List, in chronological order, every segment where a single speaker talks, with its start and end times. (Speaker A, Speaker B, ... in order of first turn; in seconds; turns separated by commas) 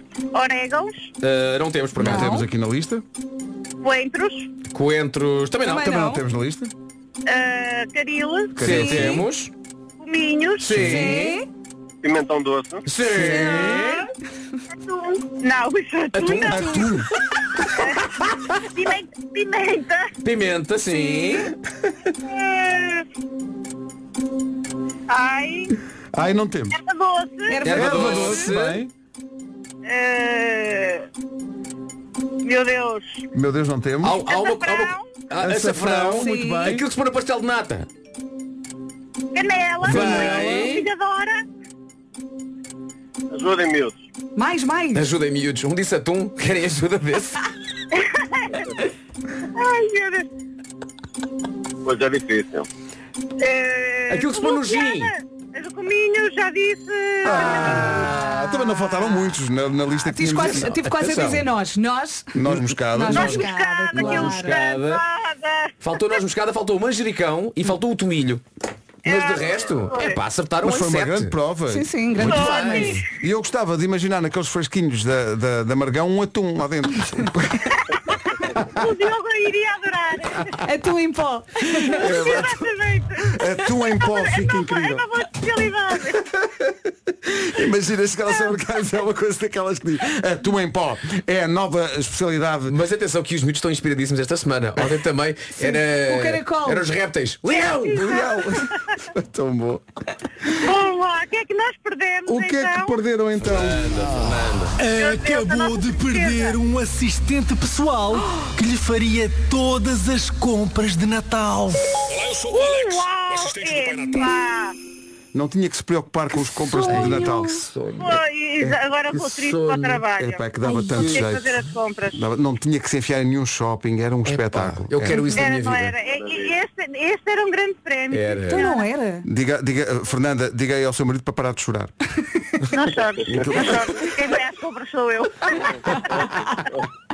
Speaker A: 0.3-1.1, Speaker B: 1.2-2.4, Speaker C: 2.0-3.0, Speaker D: 2.1-2.5, Speaker A: 3.8-4.5, Speaker B: 4.7-6.0, Speaker D: 5.7-6.2, Speaker C: 5.7-6.7, Speaker A: 7.3-8.7, Speaker C: 8.6-9.3, Speaker B: 8.6-9.5, Speaker D: 8.7-9.2, Speaker A: 10.0-11.0, Speaker B: 10.6-11.4, Speaker D: 10.8-11.5, Speaker E: 12.0-12.9, Speaker B: 12.9-14.1, Speaker D: 13.2-13.8, Speaker A: 13.3-14.1, Speaker A: 14.7-16.9, Speaker B: 16.1-16.8, Speaker C: 16.5-17.1, Speaker A: 17.8-18.0, Speaker A: 18.6-20.1, Speaker B: 20.2-21.5, Speaker D: 21.1-21.4, Speaker A: 22.2-23.1, Speaker A: 25.1-25.8, Speaker C: 26.1-26.8, Speaker A: 26.7-27.6, Speaker D: 27.5-28.4, Speaker B: 27.6-28.8, Speaker C: 27.7-28.9, Speaker A: 29.9-31.1, Speaker A: 32.4-33.2, Speaker C: 33.3-34.2, Speaker B: 34.0-37.9, Speaker A: 34.2-35.0, Speaker C: 35.4-36.9, Speaker D: 36.1-36.8, Speaker A: 39.3-41.4, Speaker B: 39.8-40.9, Speaker C: 39.9-40.6, Speaker E: 43.3-44.0, Speaker D: 44.4-45.1, Speaker B: 44.9-47.4, Speaker A: 47.9-48.6, Speaker A: 49.5-50.3, Speaker E: 51.8-52.7, Speaker A: 53.4-58.1, Speaker B: 54.1-55.1, Speaker C: 57.2-60.8, Speaker D: 57.8-58.1, Speaker D: 60.0-64.6, Speaker B: 60.6-61.5, Speaker C: 62.3-63.4, Speaker B: 63.1-63.4, Speaker A: 63.1-65.7, Speaker B: 63.9-65.0, Speaker B: 65.8-68.4, Speaker A: 69.0-70.2, Speaker B: 69.0-71.4, Speaker C: 70.6-77.8, Speaker D: 71.7-73.0, Speaker B: 72.2-73.0, Speaker A: 72.2-73.0, Speaker C: 78.5-78.9, Speaker A: 78.6-80.6, Speaker D: 80.6-82.1, Speaker C: 81.9-82.6, Speaker A: 81.9-83.4, Speaker C: 83.2-85.1, Speaker A: 83.9-86.2, Speaker C: 86.5-92.8, Speaker B: 92.7-98.1, Speaker D: 95.6-96.9, Speaker A: 97.6-98.2, Speaker C: 97.9-99.8, Speaker A: 100.5-103.0, Speaker C: 102.3-104.4, Speaker B: 103.4-104.8, Speaker F: 104.8-112.1, Speaker A: 104.9-106.5, Speaker A: 112.5-114.8, Speaker C: 115.3-117.7, Speaker B: 116.9-118.2, Speaker A: 118.0-122.2, Speaker C: 118.6-121.6, Speaker B: 119.5-119.8, Speaker D: 120.6-121.0, Speaker C: 122.1-125.2, Speaker B: 124.3-126.0, Speaker A: 125.3-128.8, Speaker E: 126.1-126.5, Speaker B: 128.1-128.7, Speaker D: 128.5-129.3, Speaker C: 129.2-131.9, Speaker A: 132.7-136.3, Speaker E: 133.2-133.6, Speaker C: 133.3-134.0